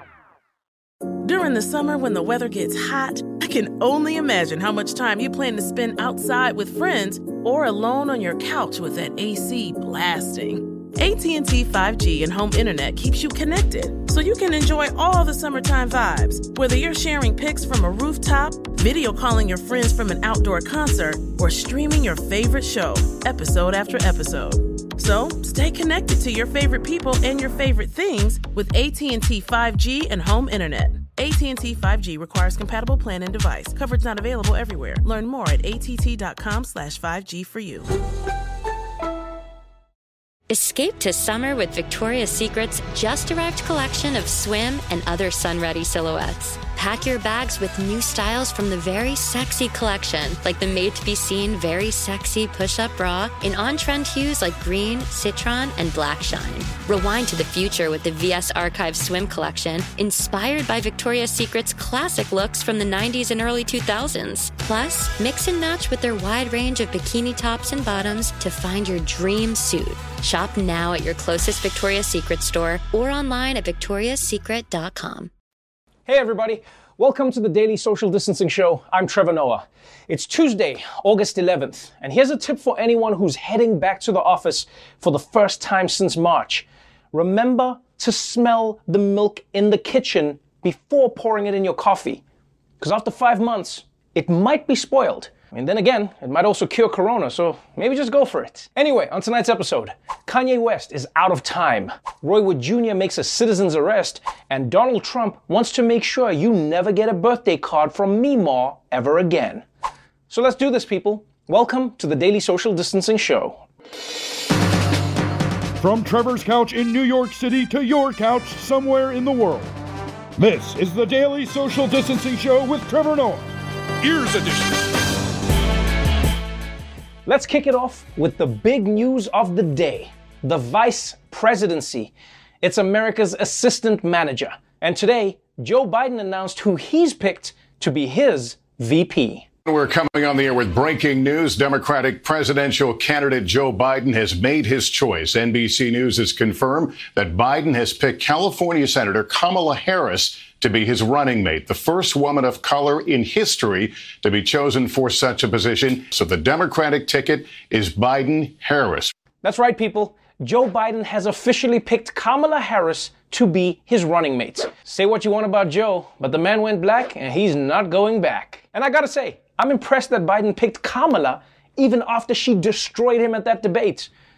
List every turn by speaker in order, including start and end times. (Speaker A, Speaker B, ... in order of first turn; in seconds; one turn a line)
Speaker A: 1.2-37.9
Speaker B: 40.5-75.3
Speaker C: 76.1-92.2
Speaker C: 92.8-109.7
Speaker C: 110.3-113.7
Speaker D: 115.8-119.7
Speaker D: 120.4-123.5
Speaker D: 124.0-124.8
Speaker C: 127.3-139.5
Speaker E: 139.7-159.1
Speaker C: 159.4-174.1